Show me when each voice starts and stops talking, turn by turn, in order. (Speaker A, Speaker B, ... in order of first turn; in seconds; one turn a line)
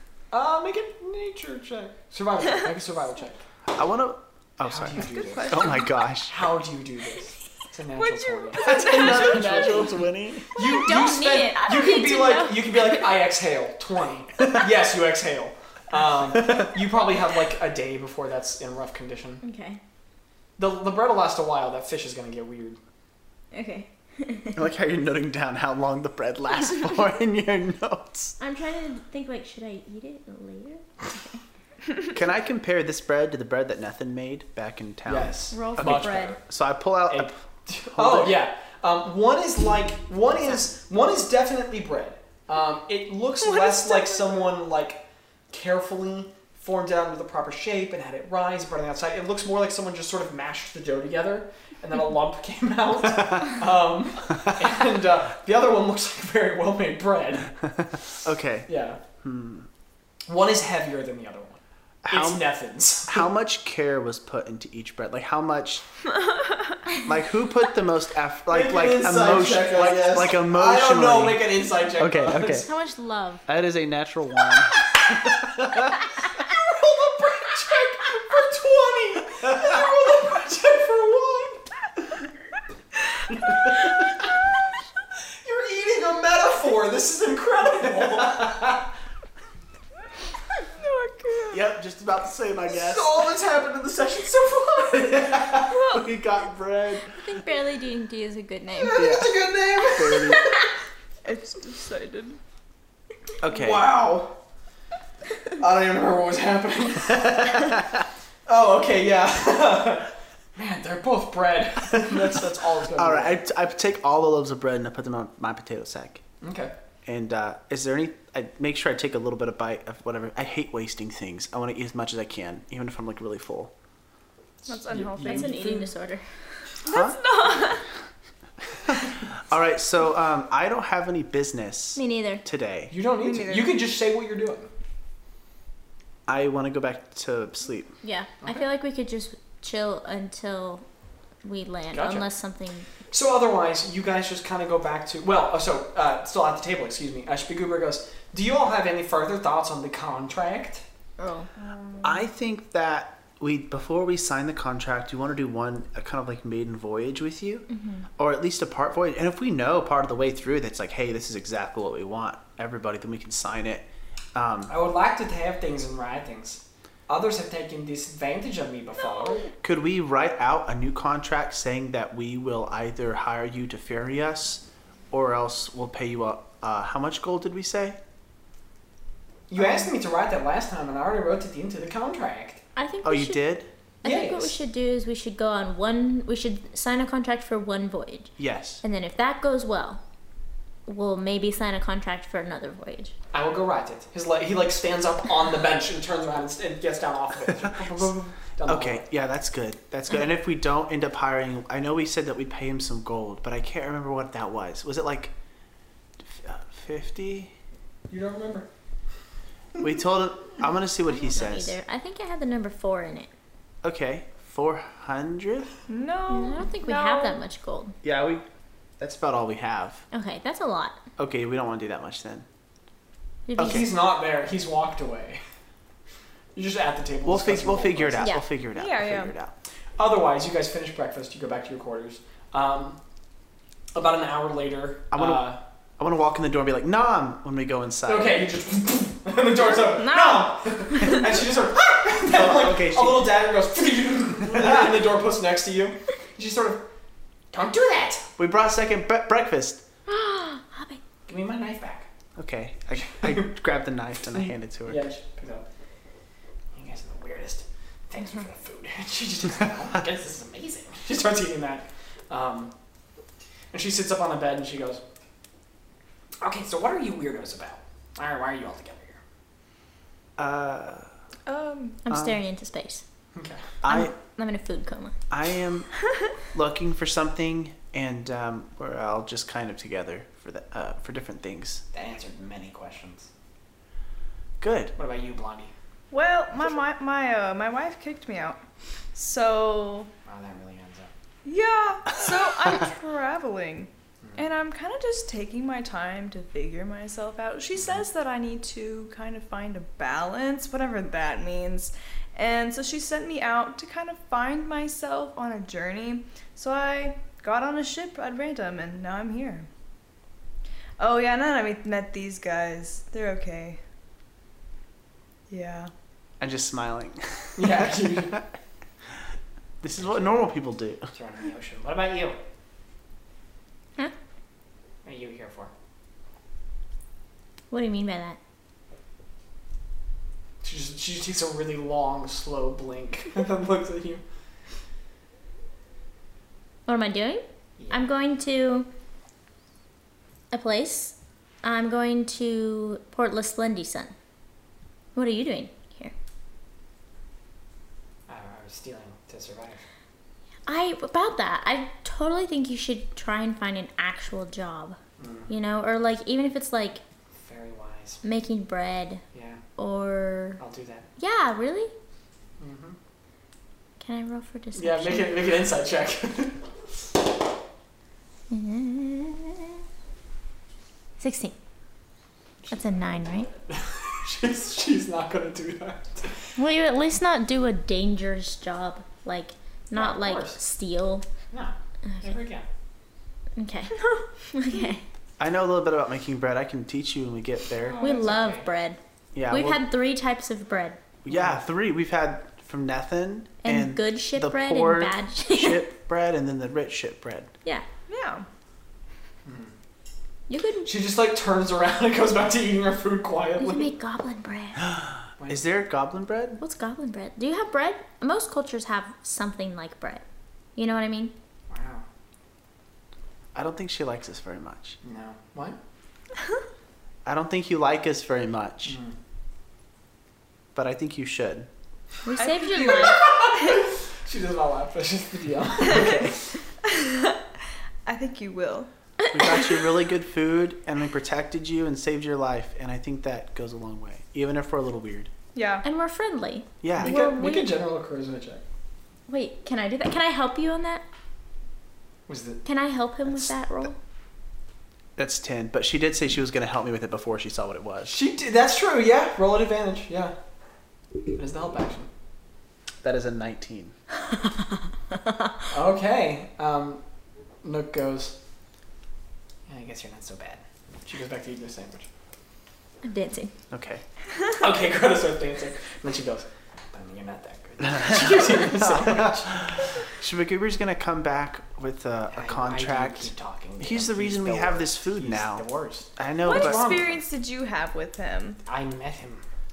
Speaker A: 0.3-3.4
Speaker B: 3.7-6.4
Speaker A: 4.6-5.7
Speaker C: 5.0-5.9
Speaker A: 6.3-9.9
Speaker C: 8.0-10.0
Speaker B: 8.5-10.6
Speaker A: 10.5-19.4
Speaker D: 10.6-13.0
Speaker D: 19.4-19.8
Speaker A: 20.6-22.8
Speaker D: 23.5-24.6
Speaker B: 24.5-28.3
Speaker D: 28.4-31.4
Speaker B: 32.1-37.4
Speaker A: 35.0-36.4
Speaker D: 35.5-36.4
Speaker A: 37.1-57.6
Speaker B: 37.9-38.4
Speaker C: 43.4-44.5
Speaker B: 58.2-58.7
Speaker A: 58.7-59.0
Speaker B: 59.2-59.7
Speaker A: 60.3-63.3
Speaker B: 62.0-62.4
Speaker B: 63.1-65.8
Speaker C: 66.1-66.8
Speaker B: 67.0-71.5
Speaker A: 68.5-72.7
Speaker B: 72.0-72.7
Speaker D: 72.4-73.4
Speaker B: 73.5-76.2
Speaker A: 76.3-81.7
Speaker A: 83.4-83.9
Speaker A: 85.4-88.8
Speaker C: 90.7-91.7
Speaker B: 91.5-93.2
Speaker A: 92.7-95.8
Speaker B: 95.3-97.2
Speaker C: 95.7-96.0
Speaker D: 97.1-99.0
Speaker A: 98.7-100.5
Speaker B: 98.9-100.5
Speaker C: 101.2-102.4
Speaker B: 103.4-103.8
Speaker A: 103.4-104.3
Speaker A: 105.5-107.8
Speaker B: 107.5-107.8
Speaker A: 108.5-113.4
Speaker B: 113.0-116.2
Speaker A: 116.4-116.7
Speaker B: 117.0-123.7
Speaker C: 124.7-125.9
Speaker A: 124.8-125.6
Speaker D: 125.2-126.2
Speaker C: 126.8-127.8
Speaker B: 126.8-127.2
Speaker B: 128.8-132.9
Speaker D: 131.9-132.4
Speaker A: 132.9-134.7
Speaker C: 133.2-133.8
Speaker B: 136.3-137.9
Speaker D: 138.0-140.8
Speaker D: 141.4-142.9
Speaker A: 141.9-142.3
Speaker A: 143.1-150.8
Speaker D: 151.2-151.5
Speaker C: 151.6-152.1
Speaker B: 152.0-157.7
Speaker D: 157.7-158.1
Speaker B: 158.2-164.7
Speaker A: 164.7-169.5
Speaker B: 169.6-178.0
Speaker A: 179.5-182.6
Speaker D: 182.8-183.4
Speaker B: 183.0-183.7
Speaker A: 184.0-184.5
Speaker D: 184.0-188.3
Speaker B: 188.4-188.8
Speaker D: 188.8-190.0
Speaker D: 190.8-193.1
Speaker A: 193.3-199.0
Speaker B: 198.6-205.3
Speaker B: 206.2-207.5
Speaker A: 208.1-208.7
Speaker B: 209.8-211.8
Speaker D: 211.1-213.3
Speaker B: 213.8-215.7
Speaker C: 215.9-217.4
Speaker D: 216.3-217.9
Speaker B: 218.0-218.4
Speaker B: 219.0-220.0
Speaker D: 220.1-221.0
Speaker B: 221.2-222.4
Speaker D: 223.5-223.9
Speaker B: 223.6-223.9
Speaker A: 223.6-225.4
Speaker A: 226.5-228.3
Speaker B: 227.2-229.5
Speaker D: 228.2-228.4
Speaker C: 228.7-229.3
Speaker A: 230.0-233.0
Speaker A: 233.9-235.6
Speaker B: 235.1-238.4
Speaker A: 238.1-246.8
Speaker D: 239.7-241.2
Speaker B: 242.3-243.3
Speaker A: 247.5-248.3
Speaker B: 248.4-249.8
Speaker D: 250.1-251.0
Speaker A: 251.3-252.1
Speaker B: 252.3-255.0
Speaker A: 253.0-253.5
Speaker A: 254.3-255.7
Speaker A: 256.7-262.7
Speaker A: 263.7-265.0
Speaker A: 266.4-269.2
Speaker B: 270.4-271.1
Speaker C: 271.4-272.0
Speaker D: 272.0-273.0
Speaker B: 272.1-272.4
Speaker A: 273.3-273.7
Speaker B: 273.8-274.1
Speaker D: 273.9-275.1
Speaker B: 275.3-275.9
Speaker B: 276.5-281.8
Speaker A: 281.9-283.3
Speaker B: 284.6-284.9
Speaker A: 285.0-285.7
Speaker C: 286.1-288.6
Speaker C: 289.1-290.1
Speaker A: 290.2-291.1
Speaker C: 291.4-309.7
Speaker C: 311.0-313.8
Speaker C: 315.5-315.9
Speaker B: 316.4-318.5
Speaker A: 317.6-318.4
Speaker B: 319.8-321.1
Speaker A: 319.9-320.5
Speaker A: 321.1-322.4
Speaker A: 325.0-325.7
Speaker D: 327.7-328.4
Speaker A: 330.6-334.2
Speaker D: 336.9-338.9
Speaker A: 337.8-338.0
Speaker D: 340.5-344.1
Speaker D: 345.1-346.1
Speaker A: 348.3-349.8
Speaker D: 350.6-357.0
Speaker A: 355.2-355.5
Speaker A: 357.3-358.2
Speaker D: 358.2-359.2
Speaker A: 359.3-359.6
Speaker D: 359.8-360.6
Speaker A: 360.6-361.1
Speaker D: 361.2-361.9
Speaker A: 362.6-363.0
Speaker D: 364.0-365.4
Speaker A: 364.7-366.6
Speaker D: 368.5-369.8
Speaker D: 371.2-371.6
Speaker D: 372.7-373.5
Speaker A: 373.5-376.5
Speaker D: 376.6-381.2
Speaker A: 379.9-380.6
Speaker A: 381.5-382.6
Speaker D: 382.0-382.4
Speaker D: 383.6-384.0
Speaker C: 384.0-384.9
Speaker D: 384.5-385.0
Speaker B: 385.4-388.1
Speaker A: 387.9-388.6
Speaker D: 388.0-391.0
Speaker B: 389.3-389.8
Speaker B: 391.2-397.5
Speaker A: 391.3-391.6
Speaker D: 393.6-395.9
Speaker C: 398.1-398.5
Speaker A: 399.4-399.7
Speaker D: 400.5-400.9
Speaker A: 400.8-403.9
Speaker D: 403.6-404.8
Speaker B: 404.8-406.6
Speaker A: 405.4-405.6
Speaker D: 406.6-410.2
Speaker D: 410.8-411.3
Speaker A: 411.7-412.0
Speaker B: 413.5-415.0
Speaker A: 415.0-415.8
Speaker B: 417.2-419.0
Speaker A: 418.9-419.1
Speaker B: 420.7-421.7
Speaker D: 422.2-423.2
Speaker C: 422.4-423.8
Speaker A: 422.7-426.4
Speaker C: 425.8-427.5
Speaker C: 428.1-428.9
Speaker D: 429.3-429.6
Speaker B: 429.3-435.3
Speaker C: 435.5-435.8
Speaker D: 435.8-437.7
Speaker B: 436.8-437.2
Speaker A: 437.0-438.6
Speaker D: 439.3-441.0
Speaker A: 442.3-442.6
Speaker D: 442.6-444.0
Speaker B: 445.2-448.1
Speaker A: 448.1-450.3
Speaker A: 451.3-452.1
Speaker B: 453.0-453.9
Speaker D: 455.1-455.5
Speaker A: 455.7-457.0
Speaker A: 457.6-458.3
Speaker A: 459.7-462.1
Speaker D: 463.0-463.5
Speaker B: 463.7-464.0
Speaker A: 464.5-470.1
Speaker B: 468.1-475.6
Speaker A: 472.3-477.2
Speaker B: 476.1-477.0
Speaker C: 476.4-478.6
Speaker A: 478.6-479.4